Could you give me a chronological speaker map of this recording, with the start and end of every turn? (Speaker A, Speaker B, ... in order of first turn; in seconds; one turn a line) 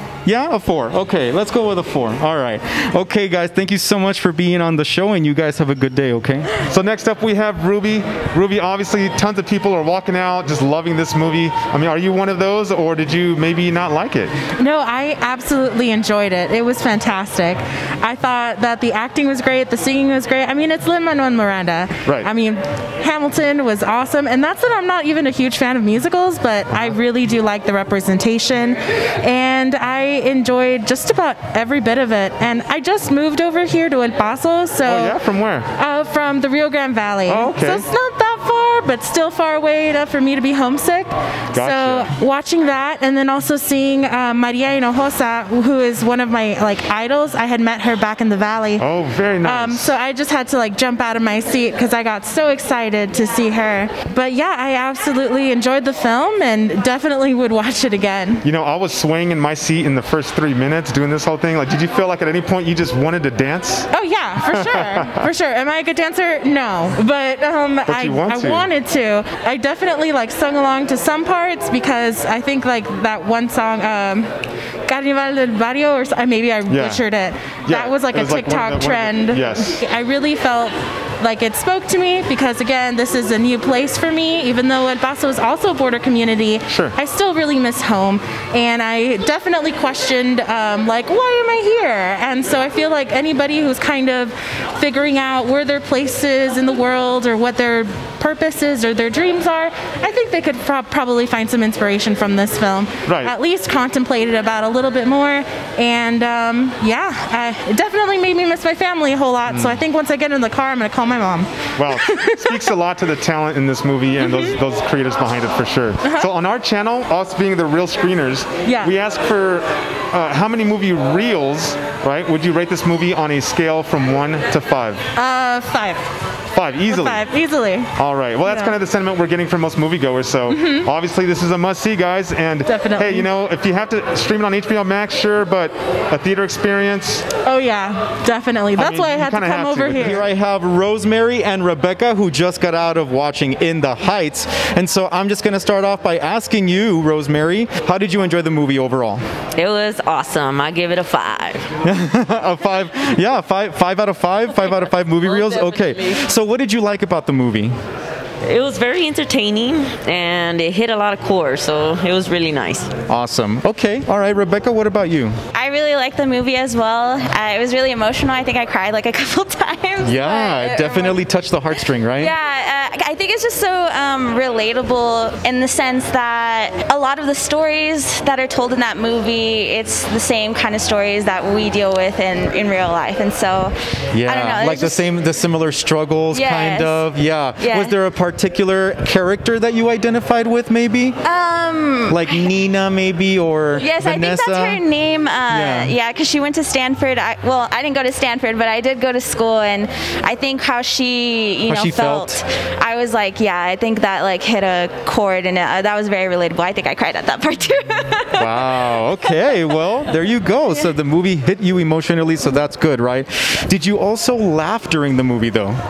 Speaker A: 0.2-6.5
Speaker B: 6.7-14.3
Speaker C: 14.6-35.1
Speaker B: 34.8-35.6
Speaker C: 35.7-48.8
Speaker B: 37.3-37.8
Speaker B: 41.5-42.1
Speaker B: 48.8-49.9
Speaker C: 49.4-58.4
Speaker B: 58.4-63.9
Speaker C: 63.9-74.3
Speaker B: 64.5-65.1
Speaker B: 67.9-68.7
Speaker C: 74.8-112.7
Speaker B: 76.7-77.0
Speaker B: 77.7-79.7
Speaker B: 86.7-86.9
Speaker B: 103.1-103.3
Speaker B: 109.5-109.8
Speaker B: 111.8-125.0
Speaker C: 114.2-114.5
Speaker C: 116.0-116.3
Speaker C: 118.6-118.9
Speaker C: 125.1-126.0
Speaker B: 126.5-127.2
Speaker C: 126.9-127.9
Speaker B: 128.0-137.2
Speaker C: 128.4-128.7
Speaker C: 130.5-130.9
Speaker C: 132.7-133.3
Speaker C: 137.4-140.2
Speaker B: 138.8-140.3
Speaker A: 139.9-149.2
Speaker D: 149.6-151.7
Speaker A: 151.8-157.7
Speaker D: 155.3-155.9
Speaker D: 158.4-162.9
Speaker A: 163.1-165.3
Speaker E: 165.5-171.1
Speaker A: 170.0-172.3
Speaker E: 172.2-185.0
Speaker A: 184.1-191.2
Speaker E: 186.3-187.0
Speaker E: 187.6-187.9
Speaker E: 191.2-192.3
Speaker A: 192.1-194.8
Speaker E: 193.8-208.4
Speaker A: 195.5-195.9
Speaker A: 201.7-202.4
Speaker A: 208.4-215.8